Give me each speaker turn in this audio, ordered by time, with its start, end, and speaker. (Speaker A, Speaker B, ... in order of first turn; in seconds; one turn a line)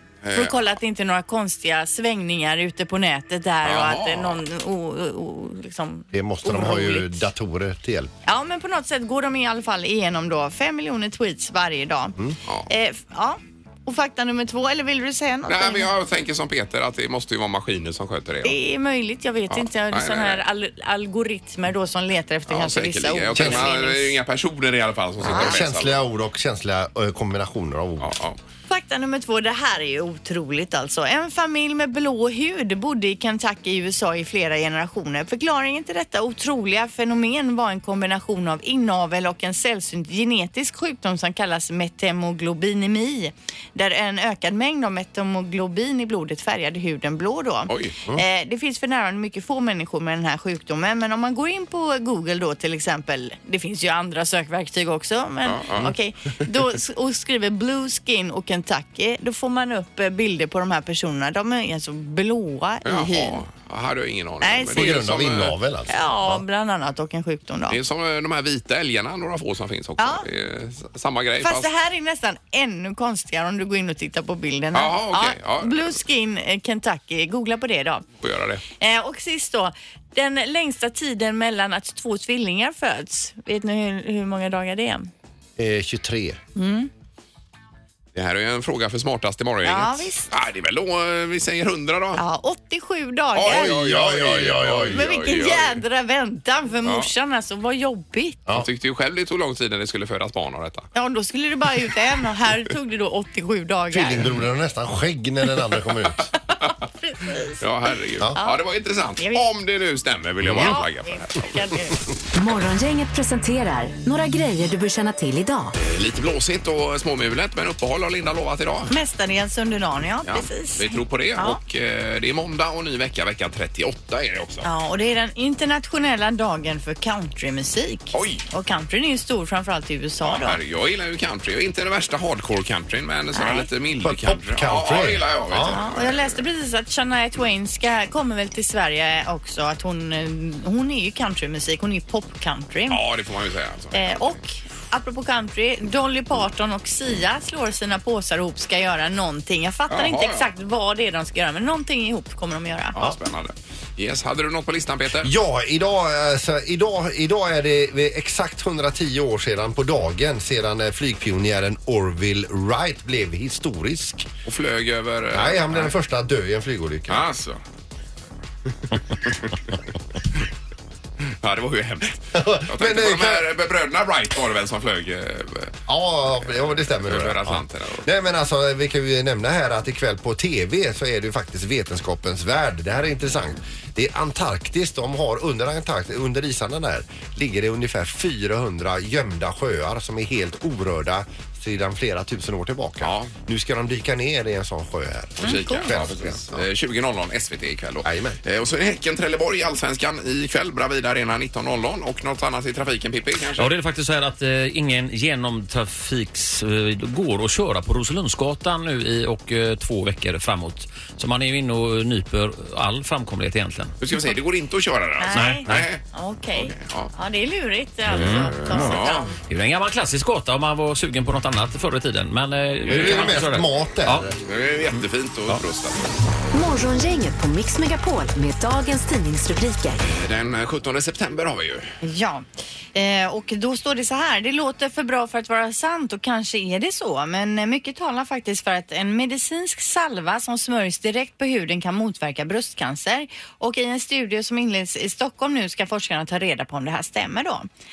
Speaker A: 0.2-0.6
Speaker B: 0.3-7.3
Speaker A: 3.6-4.4
Speaker C: 6.1-8.1
Speaker B: 8.2-15.9
Speaker A: 15.5-18.6
Speaker B: 18.4-24.1
Speaker A: 19.5-20.4
Speaker A: 22.5-26.0
Speaker C: 23.4-23.7
Speaker C: 25.2-28.1
Speaker B: 25.3-25.6
Speaker A: 28.0-28.4
Speaker B: 28.7-63.4
Speaker A: 47.7-48.0
Speaker A: 55.4-55.9
Speaker A: 62.8-65.5
Speaker B: 64.4-65.0
Speaker C: 64.7-66.4
Speaker B: 65.9-67.8
Speaker A: 67.7-71.7
Speaker B: 70.0-70.2
Speaker B: 71.4-78.0
Speaker A: 74.7-76.0
Speaker A: 78.2-78.6
Speaker B: 78.8-85.1
Speaker C: 85.6-86.4
Speaker B: 86.5-86.9
Speaker A: 88.1-92.2
Speaker B: 89.6-90.3
Speaker B: 92.1-93.7
Speaker A: 93.3-95.8
Speaker C: 93.4-95.1
Speaker B: 94.9-98.4
Speaker A: 96.8-97.1
Speaker A: 98.5-100.9
Speaker B: 100.9-104.3
Speaker C: 103.9-106.3
Speaker B: 106.7-107.6
Speaker A: 107.6-112.0
Speaker B: 108.3-108.6
Speaker B: 109.2-109.5
Speaker C: 110.4-110.7
Speaker B: 110.5-112.0
Speaker D: 112.3-115.7
Speaker A: 115.8-118.9
Speaker B: 118.9-121.6
Speaker A: 120.2-124.7
Speaker B: 124.6-130.6
Speaker A: 128.1-128.4
Speaker A: 130.2-136.4
Speaker B: 133.3-133.7
Speaker C: 134.0-135.8
Speaker B: 135.6-143.0
Speaker A: 142.9-144.3
Speaker B: 143.9-153.0
Speaker A: 149.9-150.5
Speaker A: 152.9-155.3
Speaker C: 155.1-164.3
Speaker A: 164.4-165.9
Speaker C: 165.3-167.2
Speaker A: 167.1-167.6
Speaker A: 168.9-170.4
Speaker A: 171.4-175.8
Speaker C: 172.3-173.5
Speaker C: 175.9-196.6
Speaker A: 176.4-178.1
Speaker A: 193.0-193.3
Speaker A: 195.4-203.7
Speaker B: 195.4-195.9
Speaker C: 198.0-198.4
Speaker E: 203.6-213.9
Speaker A: 214.0-216.0
Speaker B: 215.2-219.4
Speaker E: 215.3-215.9
Speaker A: 216.5-217.1
Speaker E: 218.1-224.3
Speaker A: 218.1-219.3
Speaker A: 222.8-223.5
Speaker C: 222.9-224.3
Speaker A: 224.4-226.0
Speaker E: 224.9-225.6
Speaker D: 226.5-230.0
Speaker A: 230.0-231.9
Speaker B: 232.0-247.7